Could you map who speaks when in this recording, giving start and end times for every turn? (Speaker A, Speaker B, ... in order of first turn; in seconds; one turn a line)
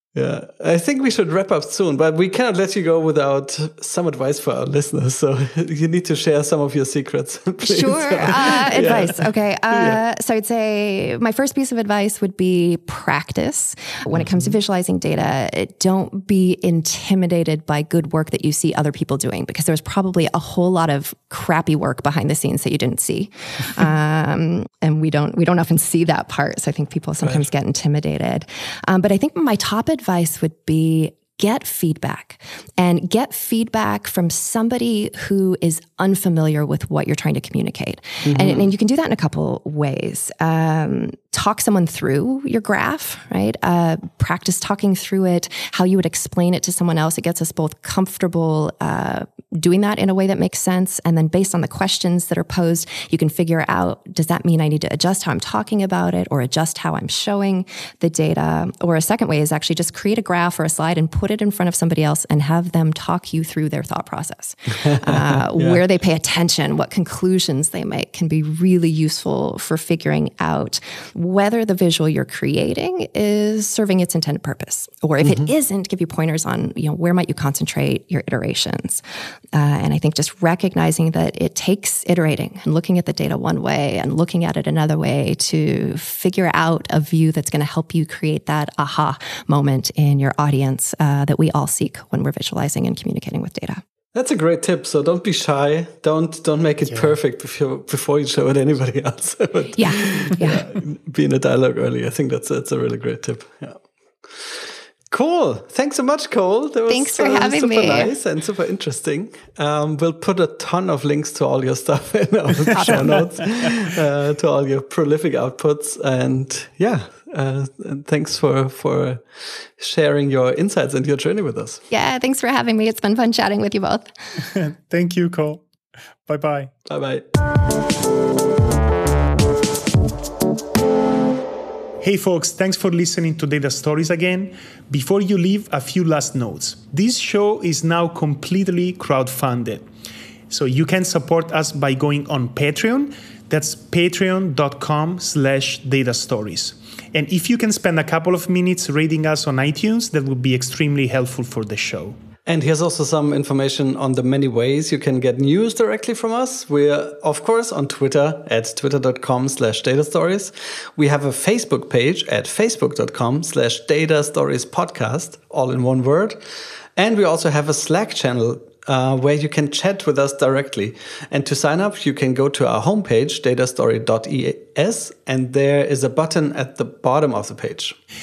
Speaker A: 0.1-10.0
Speaker B: 7.6-79.0
Speaker A: 14.2-14.5
Speaker A: 38.2-38.7
Speaker A: 64.8-65.8
Speaker A: 75.2-75.5
Speaker B: 79.5-93.8
Speaker A: 94.1-121.8
Speaker C: 96.9-97.1
Speaker B: 99.7-100.7
Speaker B: 106.9-108.1
Speaker B: 112.7-113.3
Speaker C: 112.8-113.7
Speaker B: 121.9-124.1
Speaker C: 124.4-125.6
Speaker C: 126.3-126.7
Speaker A: 126.9-127.2
Speaker C: 132.0-139.8
Speaker C: 140.5-152.2
Speaker A: 152.4-166.4
Speaker A: 166.9-177.9